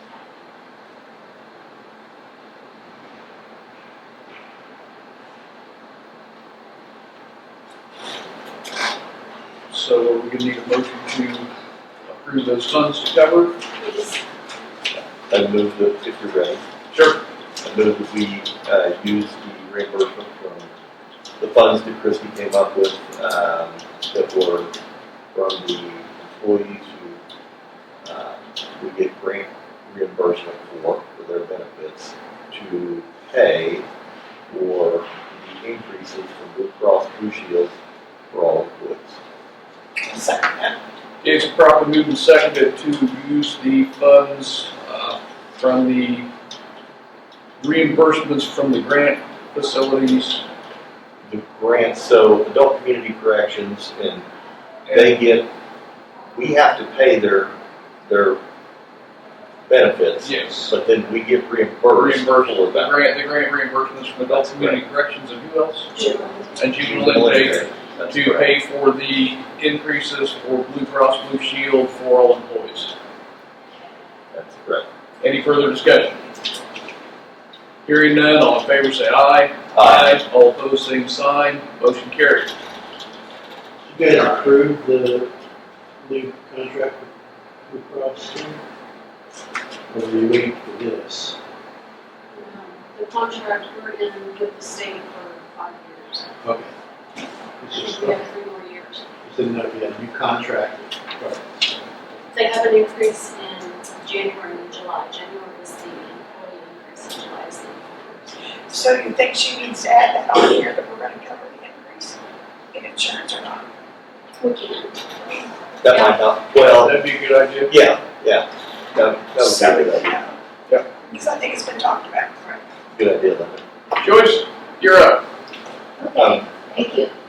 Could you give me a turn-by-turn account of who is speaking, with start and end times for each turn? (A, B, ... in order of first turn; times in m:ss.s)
0:09.7-0:11.5 A
0:12.1-0:13.6 A
0:13.8-0:14.2 B
0:14.9-0:16.6 C
0:16.9-0:17.2 A
0:17.6-0:20.7 C
0:21.4-0:24.7 C
0:25.3-0:27.2 C
0:28.0-0:33.8 C
0:34.5-0:37.7 C
0:38.3-0:39.2 C
0:40.0-0:40.8 D
0:41.2-0:46.3 A
0:47.6-0:50.4 A
0:51.3-0:54.2 C
0:54.9-0:55.2 A
0:54.9-0:55.5 C
0:56.3-0:57.5 C
0:58.1-0:58.4 C
0:59.7-1:02.9 C
1:00.2-1:00.7 A
1:01.9-1:05.9 A
1:04.3-1:04.8 C
1:06.0-1:06.2 B
1:06.6-1:12.9 A
1:06.8-1:08.6 C
1:14.3-1:14.9 C
1:15.2-1:16.2 A
1:17.8-1:22.5 A
1:19.7-1:20.2 C
1:23.9-1:25.3 E
1:26.0-1:27.1 E
1:27.7-1:28.6 E
1:29.9-1:31.4 E
1:32.3-1:36.3 B
1:36.4-1:36.7 E
1:37.6-1:38.2 E
1:37.7-1:39.1 B
1:39.2-1:41.4 E
1:42.3-1:48.4 B
1:48.7-1:52.2 D
1:52.7-1:53.7 D
1:54.4-1:55.0 B
1:55.8-1:57.0 C
1:56.6-1:57.7 A
1:57.7-2:00.2 C
1:59.4-2:00.4 D
2:01.1-2:02.6 D
2:03.0-2:03.6 C
2:04.0-2:05.2 A
2:06.2-2:06.4 C
2:06.7-2:07.1 B